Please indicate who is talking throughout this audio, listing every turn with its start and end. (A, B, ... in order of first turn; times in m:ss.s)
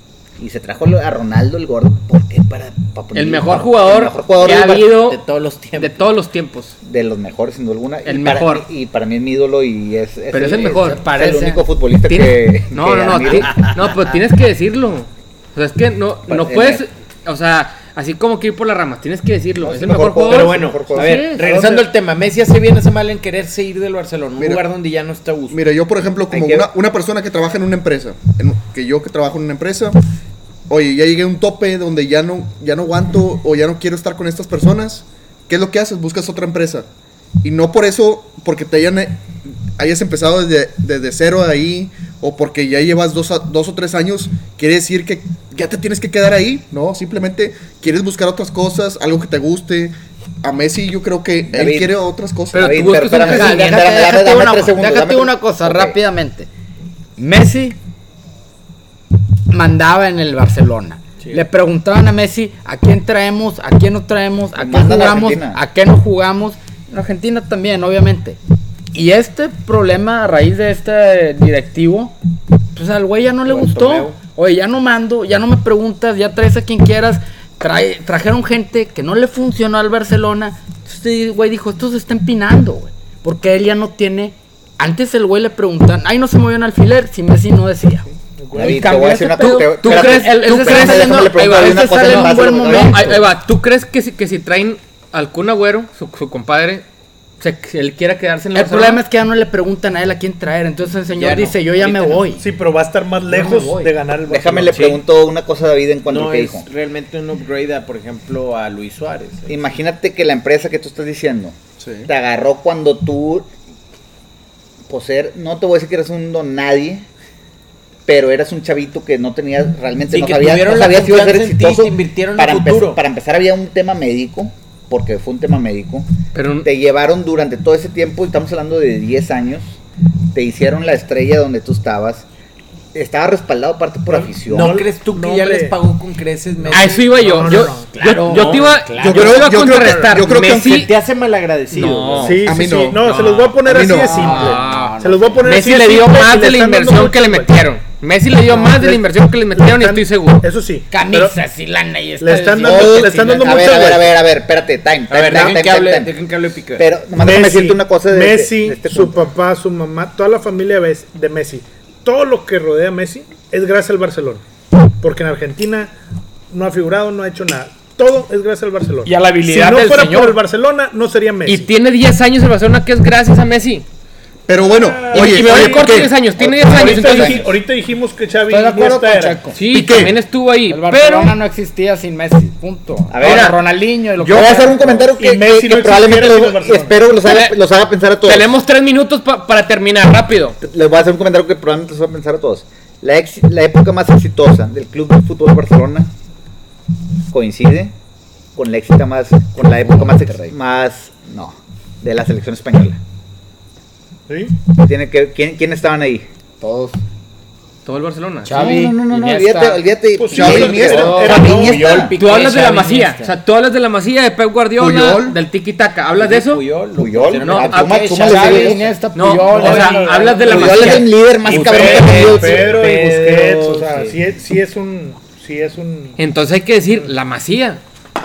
0:00.4-0:04.9 A
0:03.1-0:05.2 B
0:04.5-0:06.1 C
0:05.7-0:06.8 B
0:06.8-0:13.7 A
0:08.0-0:08.6 B
0:10.3-0:11.1 B
0:10.6-0:11.6 D
0:12.1-0:21.5 B
0:16.3-0:16.8 A
0:19.6-0:21.2 A
0:20.3-0:25.6 C
0:21.4-0:21.9 E
0:24.4-0:24.6 F
0:25.5-0:30.0 F
0:26.3-0:26.7 A
0:30.7-0:36.9 F
0:37.4-0:39.2 F
0:39.8-0:52.9 F
0:51.5-0:52.0 A
0:52.5-0:53.8 B
0:52.5-0:56.0 A
0:53.1-0:56.5 D
0:57.2-0:57.8 D
0:59.5-1:08.4 D
1:01.2-1:01.4 C
1:04.6-1:05.6 A
1:08.9-1:12.1 D
1:12.8-1:28.1 D
1:13.5-1:14.1 C
1:28.4-1:29.1 E
1:28.6-1:33.2 A
1:28.6-1:33.2 D
1:28.6-1:36.8 B
1:37.4-1:39.0 B
1:38.5-1:42.4 D
1:41.1-1:42.2 C
1:42.4-1:44.9 E
1:43.2-1:43.9 D
1:44.3-1:46.7 A
1:44.7-1:45.0 C
1:46.1-1:49.8 C
1:49.5-1:53.5 A
1:51.8-1:52.1 F
1:54.9-1:57.1 A
1:58.1-2:06.1 A
2:00.1-2:03.0 C
2:06.3-2:06.7 B
2:06.6-2:09.8 A
2:10.3-2:12.3 A
2:12.9-2:14.8 A
2:14.1-2:15.8 E
2:14.4-2:17.3 C
2:16.6-2:17.9 E
2:16.7-2:20.9 B
2:17.9-2:19.5 D
2:18.2-2:18.8 C
2:19.0-2:20.9 F
2:19.2-2:20.4 E
2:20.2-2:22.4 C
2:21.7-2:22.4 B
2:22.1-2:27.6 E
2:22.4-2:24.4 F
2:23.0-2:23.6 B
2:23.9-2:25.4 D
2:24.3-2:24.9 B
2:25.4-2:30.5 B
2:28.4-2:31.4 E
2:30.9-2:33.5 D
2:32.2-2:34.1 E
2:32.6-2:36.1 A
2:33.2-2:33.6 C
2:35.1-2:36.9 C
2:36.8-2:39.3 A
2:37.2-2:44.4 E
2:45.0-2:45.9 E
2:46.5-2:51.7 E
2:49.1-2:50.4 B
2:51.4-2:53.9 B
2:54.5-2:57.4 F
2:54.6-2:59.5 E
2:55.1-2:57.4 B
2:57.0-2:57.4 D
2:58.5-2:59.6 D
2:59.6-3:01.4 B
2:59.6-3:00.2 F
3:00.7-3:05.1 D
3:03.1-3:03.6 A
3:03.2-3:03.6 B
3:04.2-3:04.6 B
3:04.2-3:08.5 A
3:05.2-3:07.0 E
3:07.2-3:07.6 B
3:08.2-3:10.6 B
3:10.6-3:16.1 A
3:17.3-3:18.0 A
3:18.6-3:23.0 A
3:19.8-3:20.4 D
3:24.3-3:24.6 E
3:24.8-3:26.3 A
3:26.6-3:27.0 D
3:27.8-3:28.6 B
3:28.4-3:29.8 D
3:28.5-3:32.1 A
3:30.2-3:32.0 E
3:30.3-3:32.1 D
3:31.4-3:33.4 C
3:32.2-3:36.6 B
3:34.8-3:35.4 F
3:36.2-3:38.9 C
3:37.0-3:38.9 A
3:37.4-3:42.4 B
3:38.2-3:40.3 D
3:39.4-3:46.2 E
3:39.7-3:41.0 C
3:40.5-3:42.8 A
3:41.5-3:44.2 C
3:46.2-3:47.8 B